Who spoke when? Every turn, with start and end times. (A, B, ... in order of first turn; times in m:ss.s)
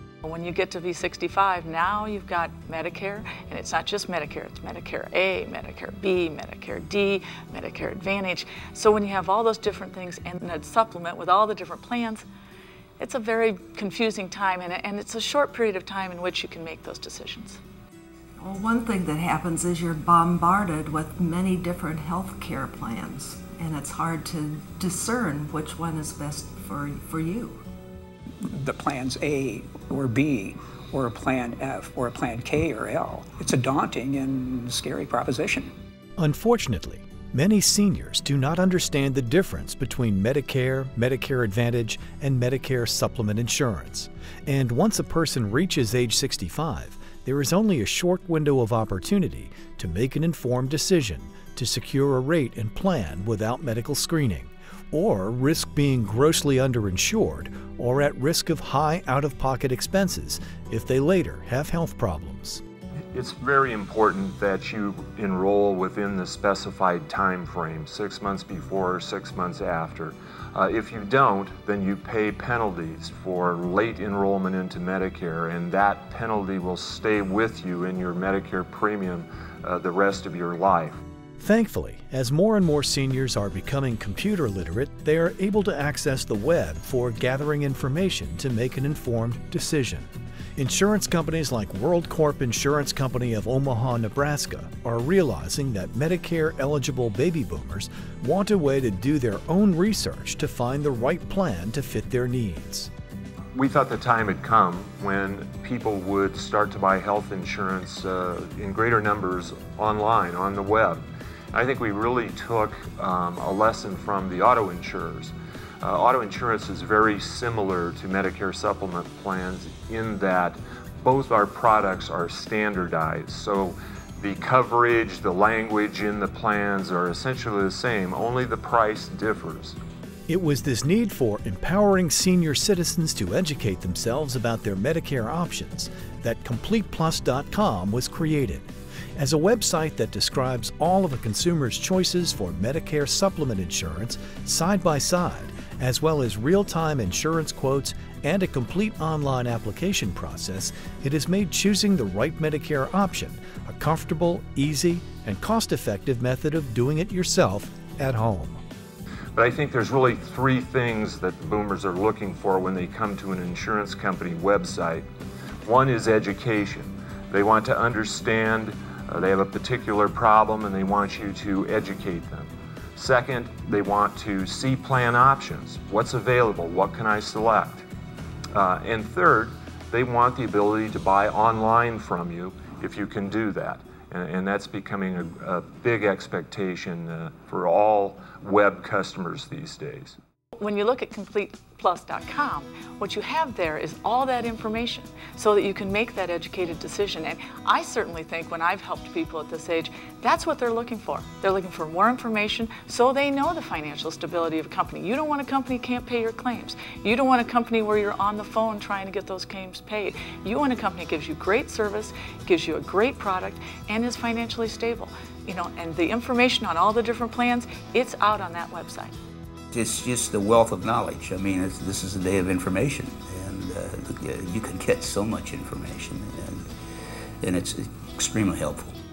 0:00.2-0:12.2 A
0:13.0-0:17.6 A
0:18.4-0:27.6 B
0:28.5-0:35.7 C
0:36.2-1:02.6 D
1:03.1-1:21.0 E
1:21.4-1:42.9 D
1:43.5-1:51.0 E
1:51.5-2:09.8 E
2:10.3-2:38.6 D
2:39.3-2:45.0 E
2:45.6-2:57.9 E
2:58.5-3:10.2 E
3:10.6-3:39.1 A
3:39.7-3:46.7 F
3:47.4-3:49.0 F